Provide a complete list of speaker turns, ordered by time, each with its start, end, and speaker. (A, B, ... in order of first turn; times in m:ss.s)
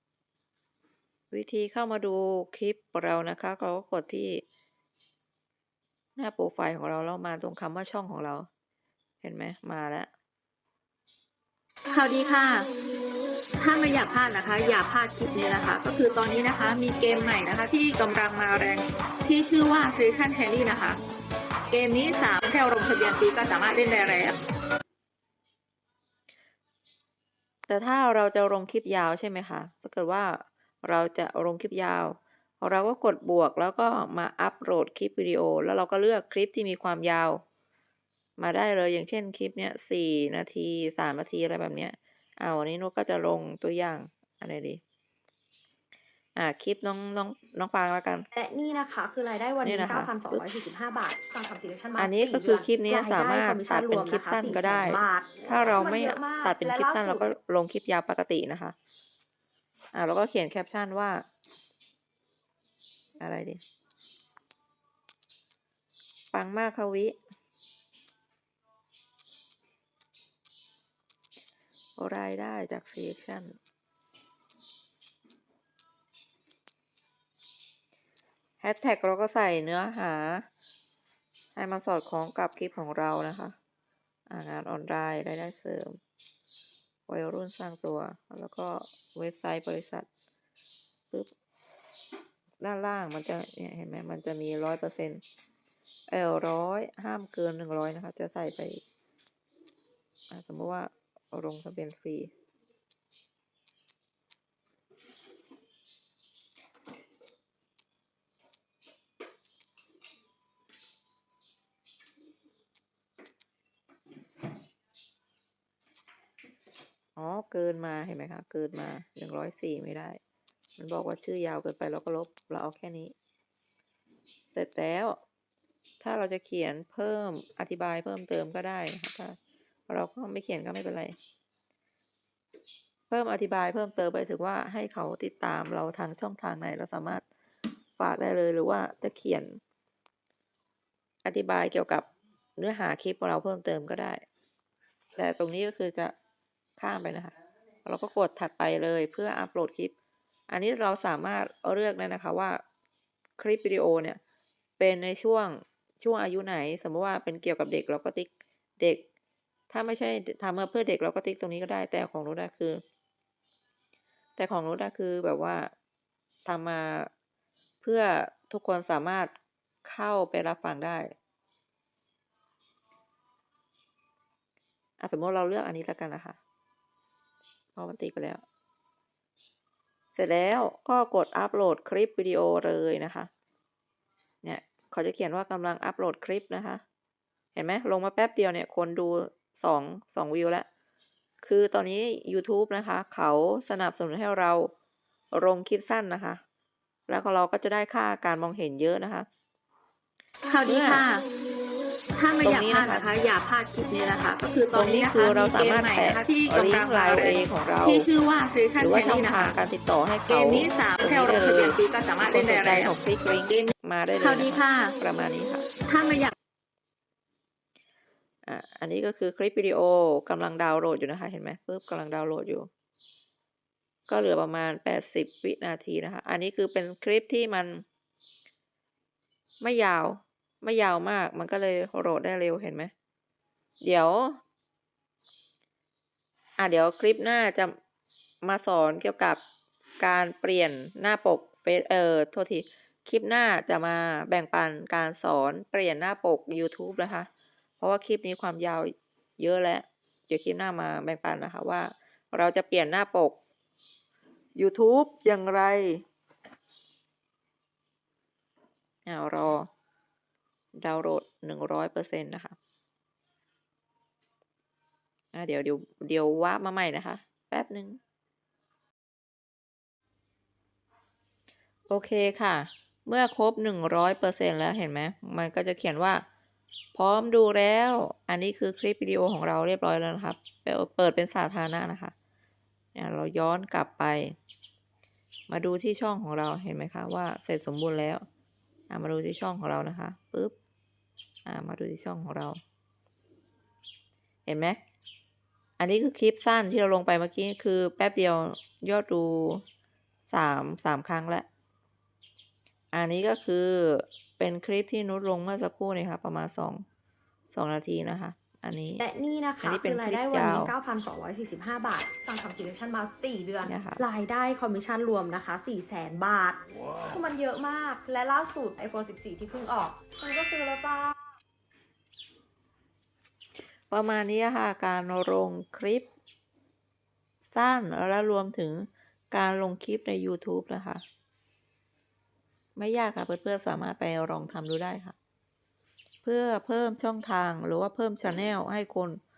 0:01.3-0:04.4 A
0:06.2-0:08.5 A
0:09.2-0:10.1 A
0:11.9-0:12.7 B
0:13.6-0:21.0 B
0:21.7-0:24.4 B
0:27.7-0:37.4 A
0:38.4-0:44.8 A
0:46.4-0:48.2 A
0:48.3-0:57.3 C
0:49.6-0:50.4 A
0:52.0-0:58.8 A
0:59.9-1:01.2 A
1:03.2-1:03.6 A
1:06.3-1:07.2 A
1:12.0-1:13.5 A
1:18.6-1:20.5 A
1:21.6-1:23.5 A
1:24.3-1:26.0 A
1:27.1-1:30.1 A
1:32.6-1:35.2 A
1:36.1-1:38.8 A
1:40.3-1:42.3 A
1:57.2-2:00.2 A
2:00.8-2:03.1 A
2:04.5-2:05.2 A
2:06.0-2:09.4 A
2:09.9-2:11.2 A
2:13.1-2:17.2 A
2:18.0-2:19.6 A
2:21.2-2:22.0 A
2:22.6-2:24.2 A
2:25.2-2:26.1 A
2:26.8-2:27.3 A
2:27.8-2:29.9 A
2:30.5-2:32.6 A
2:33.4-2:34.2 A
2:34.8-2:39.0 A
2:39.7-2:42.8 A
2:44.4-2:45.7 A
2:46.4-2:47.1 A
2:47.8-2:49.3 A
2:49.8-2:51.1 A
2:55.0-2:56.4 A
2:57.7-2:58.4 A
3:00.1-3:03.3 A
3:04.4-3:06.8 A
3:07.5-3:10.6 A
3:11.4-3:14.7 A
3:15.3-3:16.4 A
3:17.1-3:19.3 A
3:20.5-3:21.2 B
3:20.6-3:21.0 A
3:22.2-3:29.6 B
3:22.4-3:23.1 A
3:24.7-3:28.1 A
3:28.8-3:35.7 A
3:30.3-3:32.9 B
3:33.5-3:34.9 B
3:35.9-3:36.3 B
3:38.4-3:42.7 A
3:44.1-3:47.8 A
3:49.6-3:52.9 A
3:53.8-3:54.4 A
3:56.6-3:57.7 A
3:58.4-3:59.4 A
4:00.0-4:07.3 A
4:07.8-4:13.4 A
4:14.6-4:16.0 A
4:19.0-4:19.7 A
4:20.7-4:22.6 A
4:25.3-4:28.0 A
4:31.9-4:36.2 A
4:36.9-4:42.1 A
4:42.9-4:44.4 A
4:45.5-4:48.2 A
4:48.9-4:50.5 A
4:51.4-4:52.6 A
4:54.4-4:54.8 A
4:55.8-4:59.6 A
5:00.3-5:01.5 A
5:02.9-5:06.8 A
5:07.5-5:09.0 A
5:09.0-5:21.2 C
5:09.6-5:10.7 A
5:13.6-5:14.0 A
5:23.9-5:26.1 A
5:27.4-5:31.0 A
5:32.8-5:35.2 A
5:36.2-5:39.2 A